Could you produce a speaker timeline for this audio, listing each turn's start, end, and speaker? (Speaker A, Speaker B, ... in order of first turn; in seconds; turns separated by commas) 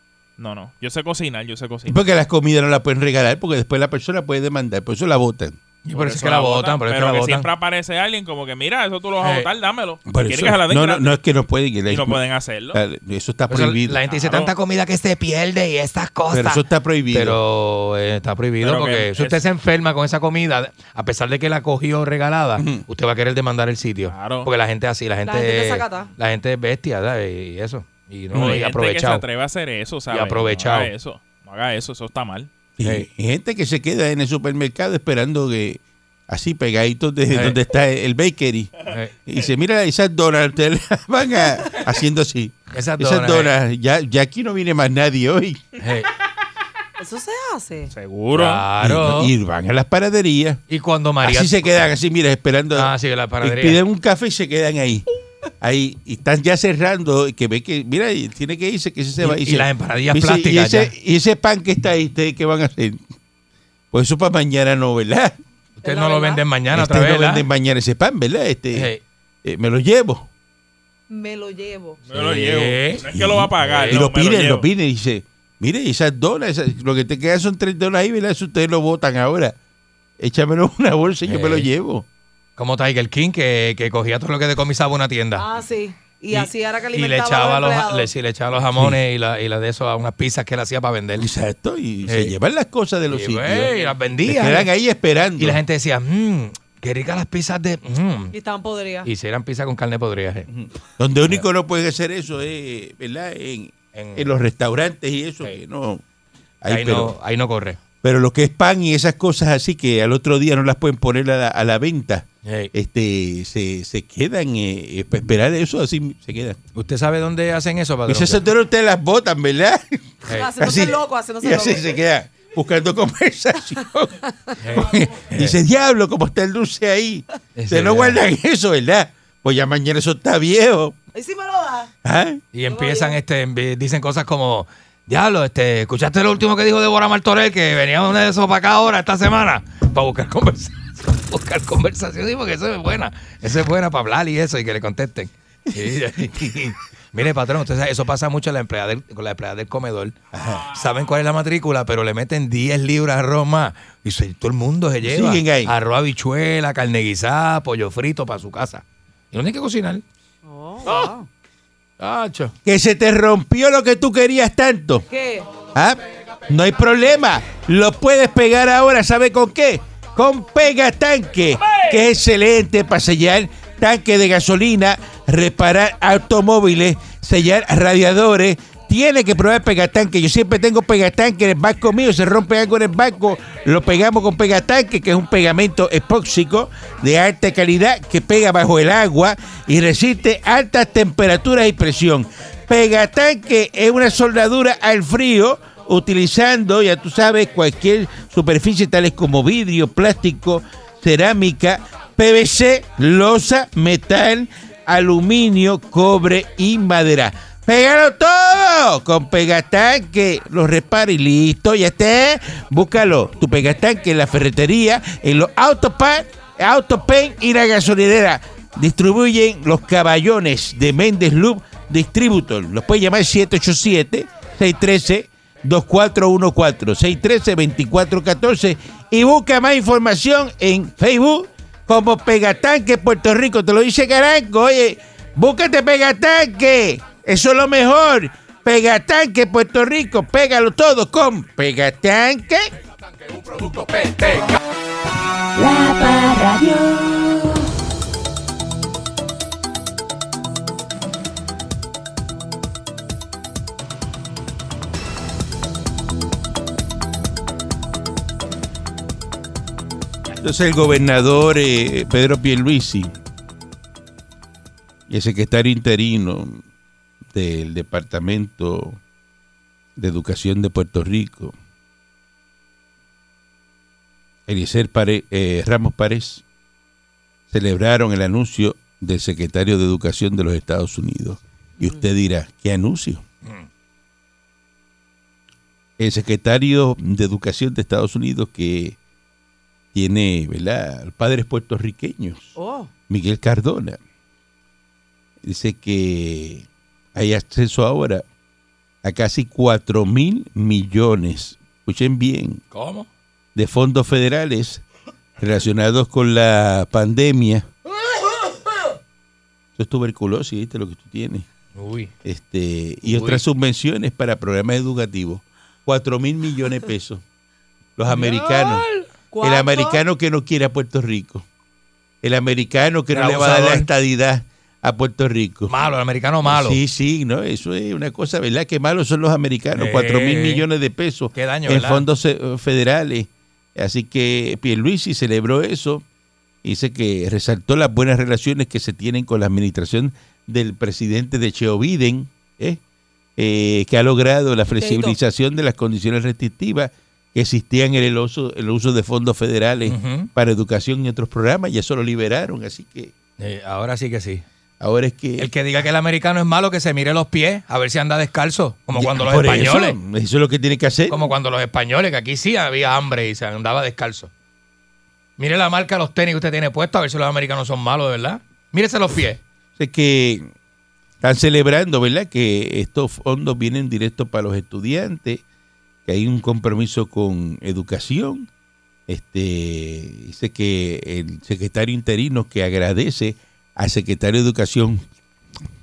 Speaker A: 0.4-2.0, Speaker B: 1.9-5.5, Speaker C: 5.8-7.5, Speaker A: 5.9-11.1, Speaker C: 9.2-9.5, Speaker B: 10.1-12.2, Speaker A: 11.9-12.8, Speaker B: 12.7-14.0, Speaker C: 13.5-29.2, Speaker A: 14.1-14.5, Speaker B: 16.3-17.4, Speaker A: 18.6-19.4, Speaker B: 22.6-22.8, Speaker A: 24.1-24.5, Speaker D: 25.2-26.1, Speaker A: 28.3-32.5, Speaker C: 30.1-30.9, Speaker B: 32.8-45.6, Speaker C: 37.3-37.6, Speaker C: 38.9-39.1, Speaker C: 42.7-43.5, Speaker C: 45.8-46.1, Speaker D: 47.0-47.9, Speaker A: 47.9-48.6, Speaker C: 48.3-49.3, Speaker B: 48.8-50.6, Speaker C: 50.7-51.7, Speaker B: 51.2-55.1, Speaker C: 52.7-53.8, Speaker B: 55.6-63.0, Speaker C: 59.2-60.9, Speaker B: 63.9-65.4, Speaker C: 65.8-67.5, Speaker D: 65.8-66.4, Speaker B: 66.7-68.9, Speaker C: 68.7-69.0, Speaker B: 69.4-70.3, Speaker D: 71.1-72.0, Speaker A: 72.0-74.7, Speaker C: 72.1-73.0, Speaker B: 73.1-79.5, Speaker C: 73.6-74.0, Speaker B: 80.2-82.0, Speaker C: 81.2-81.7, Speaker C: 82.6-85.5, Speaker D: 85.3-88.1, Speaker C: 86.3-91.3, Speaker B: 91.2-95.6, Speaker C: 92.0-92.3, Speaker C: 93.1-94.7, Speaker C: 95.4-98.3, Speaker D: 98.3-99.1, Speaker C: 99.0-100.5, Speaker B: 100.5-106.0, Speaker C: 103.9-104.3, Speaker B: 106.6-107.2, Speaker C: 106.7-107.8, Speaker B: 108.0-116.6, Speaker C: 112.4-112.7, Speaker C: 116.7-118.4, Speaker B: 118.1-124.2, Speaker C: 120.3-120.5, Speaker D: 120.3-121.9, Speaker C: 124.6-125.6, Speaker B: 124.7-130.9, Speaker C: 127.5-128.2, Speaker D: 131.1-131.9, Speaker B: 132.0-132.4, Speaker C: 132.5-150.2, Speaker D: 132.7-133.2, Speaker B: 145.9-146.2, Speaker B: 150.3-150.7, Speaker C: 150.7-160.0, Speaker B: 155.0-155.7, Speaker D: 160.4-161.3, Speaker C: 162.0-162.5, Speaker B: 162.6-165.1, Speaker D: 165.1-165.5, Speaker B: 165.7-242.7, Speaker C: 243.7-244.3, Speaker E: 245.6-247.7, Speaker B: 260.4-263.1, Speaker B: 265.1-266.6, Speaker B: 267.3-269.0, Speaker B: 269.9-271.5, Speaker B: 274.5-276.4, Speaker B: 277.5-283.2, Speaker B: 286.0-289.0, Speaker B: 289.9-292.6, Speaker D: 292.6-292.9, Speaker B: 293.1-294.0, Speaker B: 295.4-298.2, Speaker B: 299.0-302.6, Speaker C: 302.7-303.1, Speaker B: 303.5-304.8, Speaker B: 305.4-307.7, Speaker B: 309.8-311.5, Speaker C: 311.7-312.1, Speaker B: 312.2-317.2, Speaker C: 313.0-313.4, Speaker B: 318.0-318.8, Speaker C: 318.1-319.1, Speaker D: 319.3-320.0, Speaker B: 319.4-321.4, Speaker B: 322.2-325.7, Speaker C: 323.1-323.9, Speaker C: 325.7-326.8, Speaker B: 326.4-336.0, Speaker C: 329.7-330.6, Speaker C: 331.3-332.0, Speaker B: 336.6-342.8, Speaker B: 343.4-353.1, Speaker D: 344.8-345.1, Speaker C: 349.9-350.3, Speaker C: 353.4-354.4, Speaker B: 354.8-355.5, Speaker C: 355.4-360.0, Speaker B: 358.9-361.3, Speaker C: 361.1-364.3, Speaker C: 365.4-369.4, Speaker B: 369.8-370.5, Speaker B: 371.2-375.4, Speaker B: 376.1-378.5, Speaker B: 379.1-385.0